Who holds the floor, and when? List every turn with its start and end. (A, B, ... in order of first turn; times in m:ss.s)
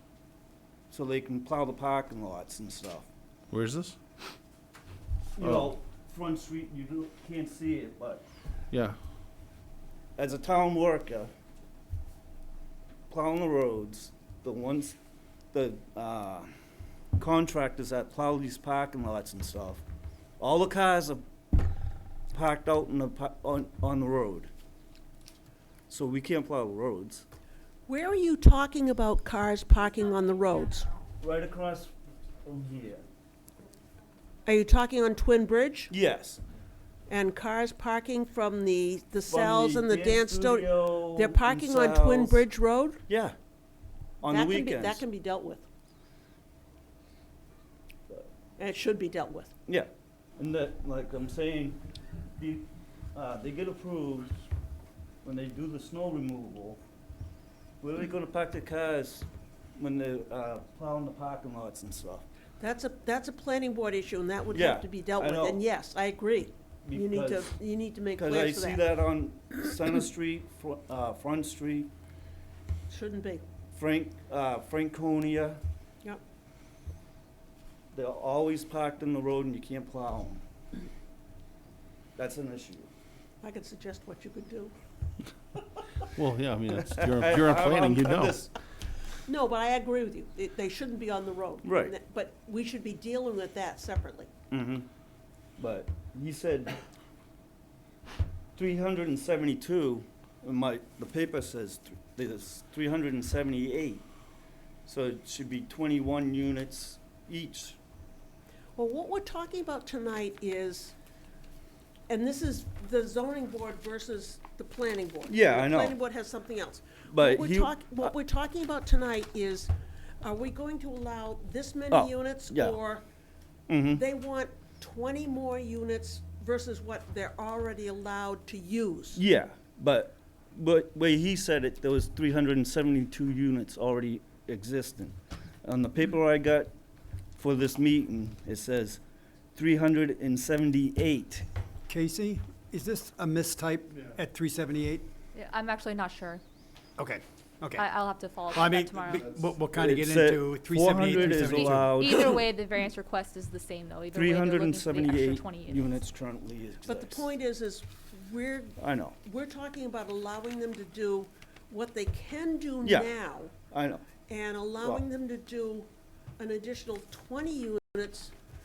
0:00.9-0:03.1 A
0:03.5-0:04.0 B
0:05.4-0:08.3 A
0:05.4-0:05.7 B
0:08.7-0:09.0 B
0:10.2-0:11.3 A
0:13.1-0:15.0 A
0:15.5-0:16.5 A
0:17.2-0:19.8 A
0:20.4-0:21.2 A
0:22.3-0:24.5 A
0:25.9-0:27.2 A
0:27.9-0:30.9 C
0:31.2-0:31.9 A
0:32.4-0:33.0 A
0:34.4-0:35.9 C
0:35.9-0:36.4 A
0:37.1-0:43.0 C
0:39.2-0:42.5 A
0:43.1-0:43.3 A
0:44.2-0:45.0 A
0:44.2-0:45.7 C
0:48.6-0:49.5 C
0:49.6-0:51.8 A
0:52.4-0:54.3 A
0:55.2-0:56.8 A
0:57.8-1:02.2 A
1:02.6-1:09.0 C
1:04.5-1:05.6 A
1:06.8-1:07.5 A
1:08.2-1:11.9 A
1:12.9-1:13.4 C
1:13.7-1:15.6 A
1:17.9-1:20.4 A
1:22.2-1:22.9 A
1:23.4-1:24.7 C
1:26.2-1:28.4 B
1:27.0-1:28.5 A
1:29.3-1:34.3 C
1:31.6-1:31.9 A
1:34.5-1:34.8 A
1:35.6-1:36.8 A
1:38.6-1:44.0 A
1:44.8-1:47.8 A
1:48.8-1:50.9 C
1:52.1-2:03.0 C
1:55.3-1:56.0 A
1:57.0-1:58.1 A
2:01.9-2:02.8 A
2:03.7-2:04.0 A
2:03.9-2:09.2 C
2:09.1-2:16.7 A
2:17.4-2:19.0 A
2:19.5-2:21.4 A
2:21.9-2:25.1 D
2:25.3-2:26.4 E
2:27.0-2:27.8 D
2:27.7-2:29.3 E
2:28.5-2:32.3 D
2:29.7-2:32.4 A
2:31.3-2:36.0 E
2:34.1-2:37.3 A
2:36.8-2:43.6 C
2:38.8-2:39.2 A
2:42.8-2:44.2 A
2:44.2-2:48.3 C